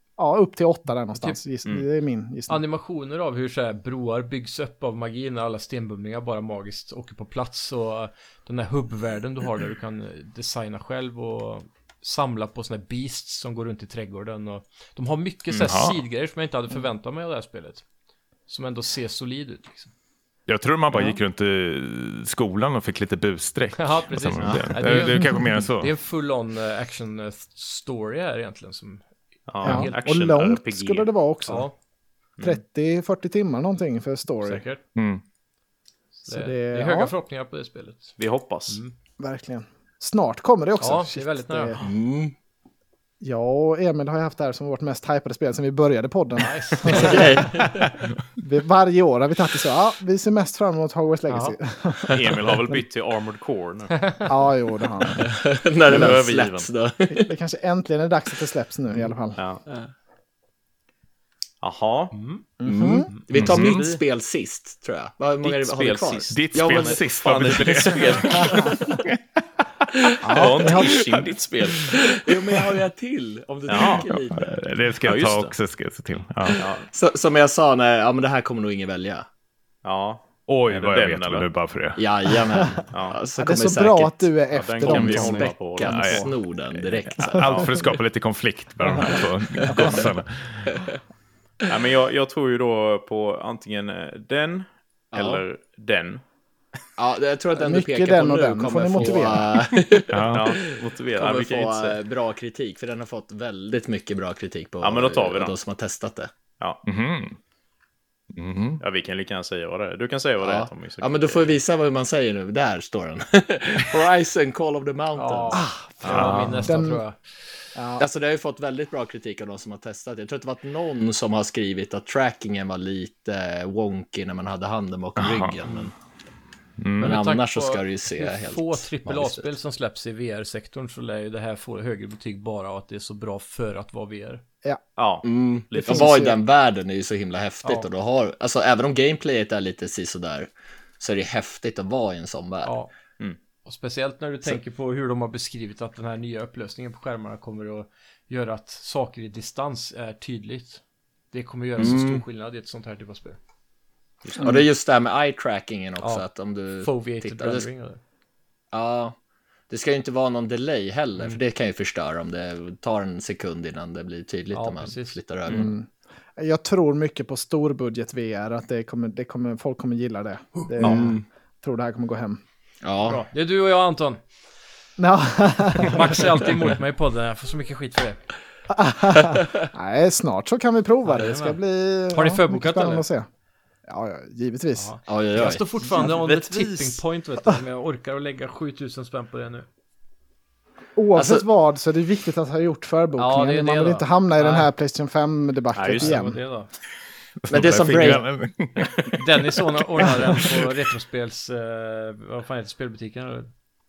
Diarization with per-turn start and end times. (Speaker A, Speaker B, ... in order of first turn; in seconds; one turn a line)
Speaker A: 0.2-2.6
Speaker B: 2.5-17.8
Speaker C: 15.5-16.0
Speaker B: 18.5-19.9
Speaker C: 20.5-25.9
Speaker B: 23.8-29.1
Speaker D: 24.4-25.1
Speaker D: 29.5-31.1
Speaker B: 29.6-30.0
Speaker A: 29.6-31.7
Speaker B: 31.5-31.7
Speaker A: 32.4-34.6
Speaker B: 34.4-34.8
Speaker C: 35.0-35.2
Speaker B: 36.2-38.1
Speaker A: 36.3-37.1
Speaker D: 38.2-38.8
Speaker B: 38.7-38.9
Speaker A: 39.2-41.9
Speaker B: 40.8-41.8
Speaker E: 41.8-42.3
Speaker A: 43.2-47.6
Speaker B: 46.4-47.5
Speaker E: 46.9-47.9
Speaker A: 48.4-52.8
Speaker B: 51.3-51.6
Speaker D: 52.1-54.2
Speaker A: 54.3-55.3
Speaker E: 55.2-57.3
Speaker D: 55.9-56.7
Speaker A: 57.1-59.4
Speaker D: 59.4-59.6
Speaker D: 61.6-62.2
Speaker B: 62.1-62.4
Speaker A: 62.6-63.1
Speaker E: 62.7-69.0
Speaker C: 63.3-63.9
Speaker D: 63.4-64.0
Speaker D: 65.4-68.8
Speaker C: 66.3-69.2
Speaker A: 70.2-71.1
Speaker D: 70.3-72.0
Speaker E: 72.0-74.6
Speaker D: 73.7-74.2
Speaker C: 74.3-76.7
Speaker D: 75.0-75.5
Speaker D: 76.6-76.9
Speaker E: 76.6-79.3
Speaker D: 79.8-81.5
Speaker C: 80.5-82.0
Speaker E: 82.0-84.3
Speaker D: 82.9-83.2
Speaker A: 83.4-86.3
Speaker D: 84.5-86.2
Speaker E: 84.8-87.7
Speaker C: 85.9-86.3
Speaker C: 86.8-90.8
Speaker E: 89.6-90.1
Speaker E: 90.7-91.0
Speaker D: 91.7-96.2
Speaker E: 95.1-95.4
Speaker E: 97.0-106.3
Speaker A: 97.5-99.5
Speaker C: 100.1-100.5
Speaker D: 100.3-102.0
Speaker D: 104.8-105.6
Speaker C: 106.8-107.4
Speaker C: 108.3-108.8
Speaker D: 108.8-111.6
Speaker E: 110.4-115.6
Speaker B: 115.2-117.2
Speaker A: 115.5-117.0
Speaker C: 116.1-116.7
Speaker A: 117.8-118.1
Speaker E: 118.0-125.9
Speaker C: 125.2-125.6
Speaker C: 126.8-127.2
Speaker B: 127.0-134.4
Speaker E: 127.0-129.5
Speaker D: 135.0-136.1
Speaker E: 135.2-142.7
Speaker A: 135.8-136.4
Speaker B: 142.6-142.9
Speaker B: 143.7-153.4
Speaker E: 151.8-152.2
Speaker D: 154.2-154.6
Speaker E: 154.4-157.7
Speaker B: 156.0-156.3
Speaker B: 156.8-158.0
Speaker E: 158.7-159.2
Speaker E: 159.7-165.7
Speaker B: 164.5-165.2
Speaker A: 165.5-172.4
Speaker E: 170.8-171.2
Speaker E: 172.8-173.2
Speaker B: 173.0-174.2
Speaker A: 175.0-176.4
Speaker B: 175.8-178.2
Speaker A: 178.7-183.3
Speaker E: 179.2-179.7
Speaker B: 181.1-181.6
Speaker B: 182.1-183.1
Speaker A: 183.9-184.9
Speaker B: 184.8-189.7
Speaker E: 185.1-185.6
Speaker A: 185.9-186.2
Speaker D: 186.0-187.0
Speaker A: 191.0-196.4
Speaker E: 191.2-191.4
Speaker B: 193.2-194.7
Speaker D: 195.8-196.3
Speaker B: 196.0-196.7
Speaker C: 197.4-199.3
Speaker E: 197.5-198.3
Speaker B: 199.2-203.5
Speaker C: 200.0-200.7